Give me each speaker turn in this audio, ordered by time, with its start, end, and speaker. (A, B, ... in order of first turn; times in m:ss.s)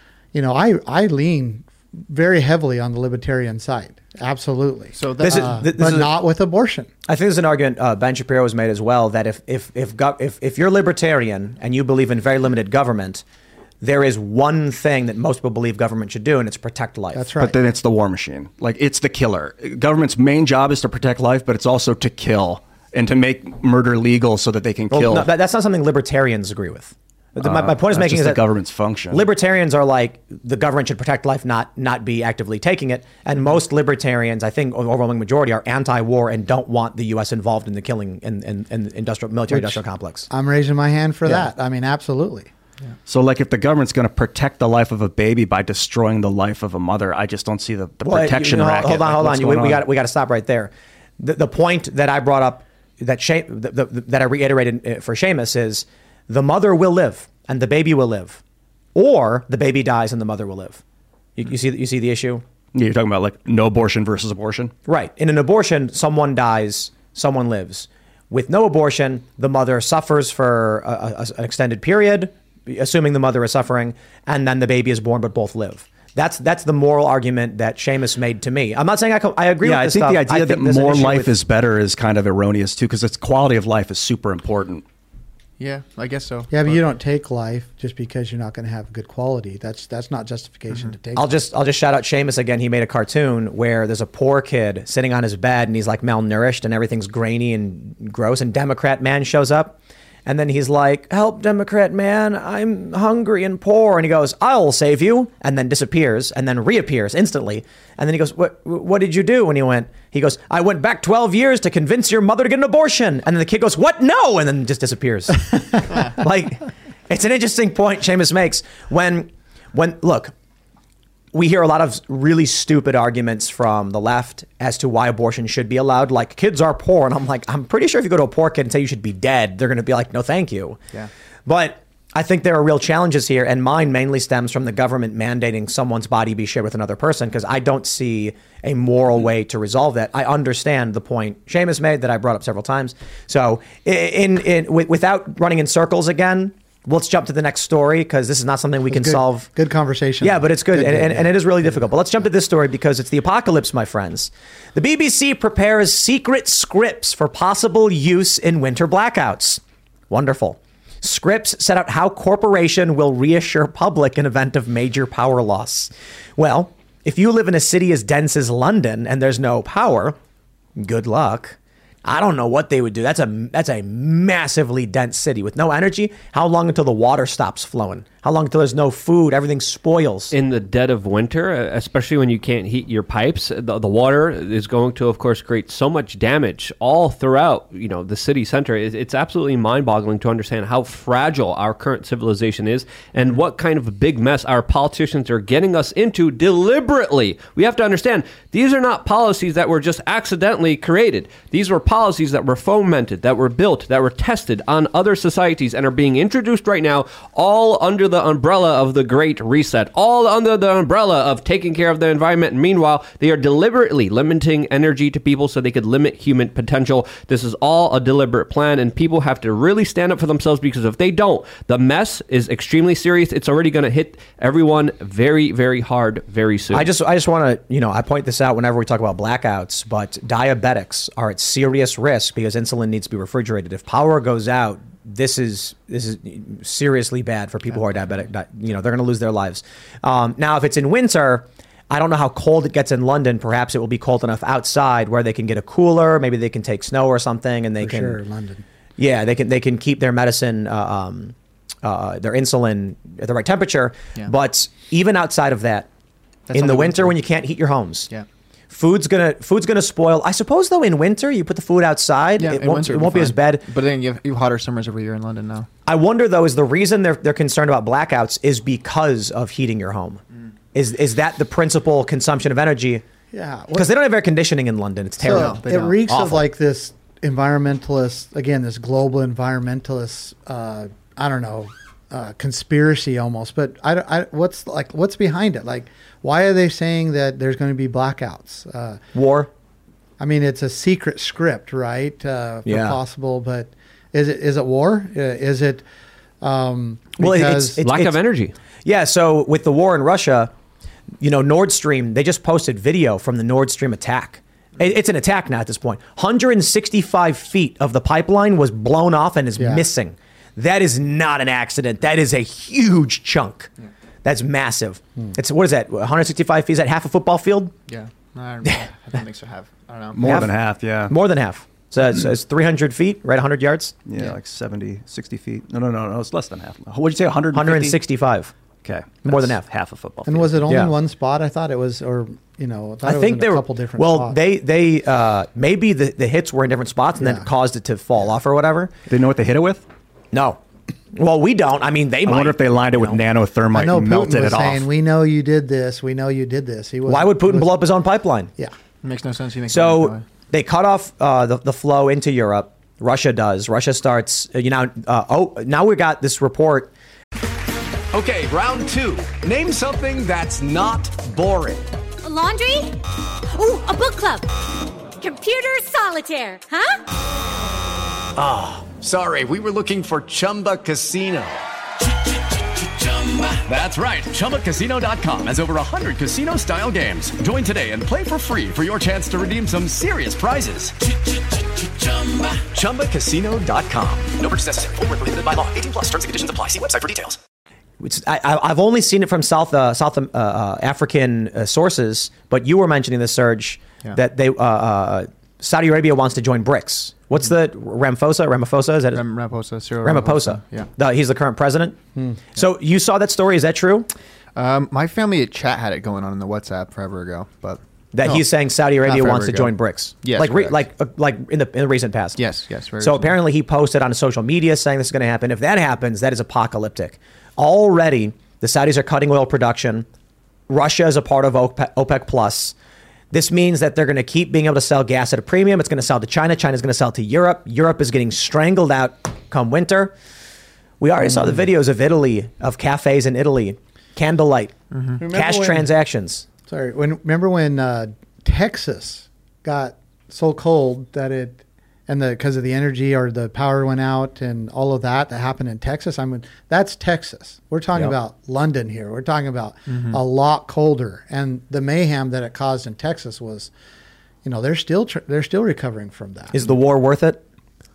0:00.3-0:06.9 A
0:04.9-0:05.6 B
0:05.2-0:06.1 C
0:07.1-0:13.2 C
0:13.8-0:17.3 C
0:17.1-0:17.6 A
0:17.4-0:25.3 D
0:24.9-0:28.5 C
0:27.4-0:29.3 D
0:29.1-0:40.3 C
0:39.5-0:42.5 A
0:43.0-0:49.8 D
0:48.0-0:58.4 C
0:58.9-1:00.8 C
1:01.4-1:02.4 C
1:02.7-1:04.7 D
1:04.8-1:21.3 C
1:19.6-1:24.8 D
1:25.6-1:26.7 B
1:26.5-1:31.4 A
1:31.1-2:00.3 C
2:01.3-2:10.8 C
2:11.4-2:29.5 C
2:28.9-2:31.3 A
2:30.2-2:50.2 C
2:50.8-3:00.3 C
3:00.3-3:46.9 E
3:46.7-4:08.2 C
4:07.8-4:08.6 A
4:09.0-4:15.9 C
4:16.5-4:17.2 B
4:16.5-4:18.1 C
4:18.7-4:23.7 C
4:22.4-4:25.7 B
4:25.8-4:30.2 C
4:30.7-4:33.0 C
4:33.3-4:33.9 A
4:33.7-4:36.4 C
4:35.2-4:49.0 A
4:35.2-4:36.0 B
4:49.1-4:49.5 C
4:50.2-4:55.8 A
4:52.6-4:53.0 C
4:56.4-4:57.8 A
4:57.2-4:58.2 C
4:57.8-4:58.5 E
4:58.8-5:00.5 C
5:01.2-5:13.7 C
5:09.6-5:09.8 A
5:14.2-5:17.7 C
5:17.9-5:20.4 B
5:18.6-5:18.9 C
5:20.1-5:21.1 D
5:20.2-5:23.9 C
5:24.1-5:28.0 D
5:27.5-5:28.5 C
5:28.8-5:30.7 D
5:29.2-5:29.6 C
5:30.2-5:34.4 A
5:30.7-5:30.9 C
5:33.0-5:38.9 C
5:37.2-5:37.5 A
5:39.1-5:39.8 D
5:40.3-5:40.6 C
5:41.1-5:43.2 C
5:42.2-5:44.8 D
5:43.7-5:47.8 A
5:47.0-5:48.5 C
5:49.0-5:50.2 B
5:49.7-5:56.9 C
5:58.1-6:01.9 F
6:02.2-6:02.9 G
6:03.5-6:04.4 G
6:05.2-6:06.9 G
6:08.4-6:11.6 F
6:13.0-6:21.2 F
6:21.8-6:24.4 F
6:24.4-6:27.3 H
6:28.0-6:39.2 C
6:39.1-6:40.9 B
6:40.0-6:42.0 C
6:42.1-6:42.4 A
6:42.5-6:44.1 C
6:44.6-6:48.5 B
6:48.1-6:52.4 C
6:49.0-6:50.8 B
6:52.4-6:53.3 B
6:53.0-7:00.0 C
7:00.7-7:02.7 C
7:03.3-7:10.1 C
7:11.0-7:14.8 C
7:14.9-7:15.2 B
7:15.2-7:15.9 A
7:15.3-7:16.4 C
7:16.6-7:33.7 A
7:29.9-7:30.2 B
7:34.4-7:36.5 A
7:36.5-7:37.4 C